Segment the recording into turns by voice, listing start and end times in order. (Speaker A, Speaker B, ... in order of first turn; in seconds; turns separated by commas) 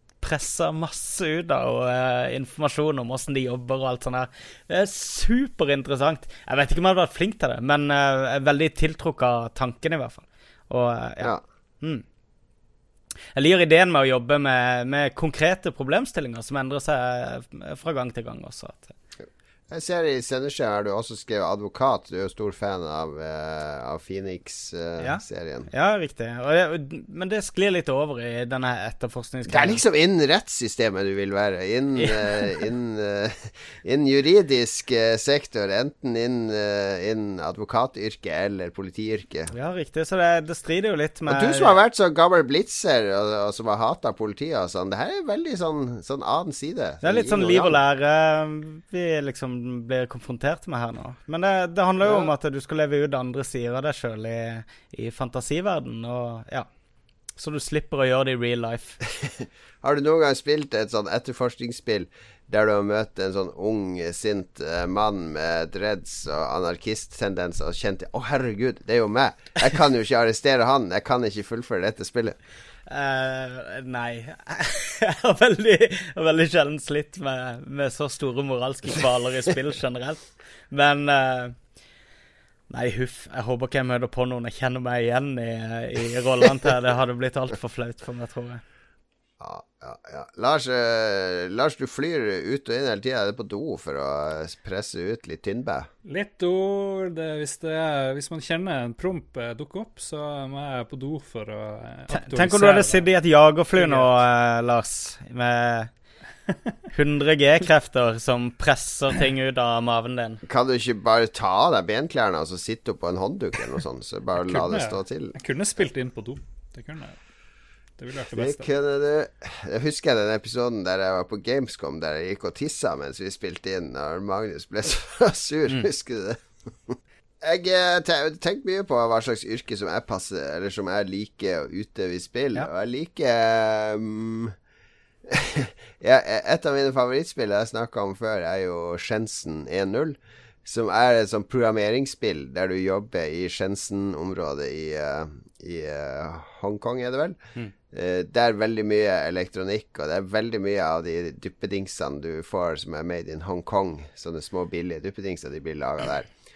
Speaker A: 0.2-12.0, Speaker A: 13.3-18.9, Speaker B: 19.7-25.7, Speaker A: 25.0-29.8, Speaker B: 29.5-39.5, Speaker A: 32.0-32.3, Speaker A: 39.5-41.7, Speaker B: 41.3-47.8, Speaker A: 47.0-56.7, Speaker B: 52.0-52.3, Speaker A: 57.4-59.0, Speaker B: 59.1-72.4, Speaker A: 72.9-81.5, Speaker A: 82.7-88.6, Speaker B: 89.4-95.9, Speaker C: 96.0-103.1, Speaker A: 102.1-105.9, Speaker C: 103.8-104.2, Speaker A: 106.9-110.4, Speaker B: 110.4-115.3, Speaker C: 114.4-117.2, Speaker C: 118.0-118.7, Speaker B: 118.3-134.5, Speaker B: 135.2-156.3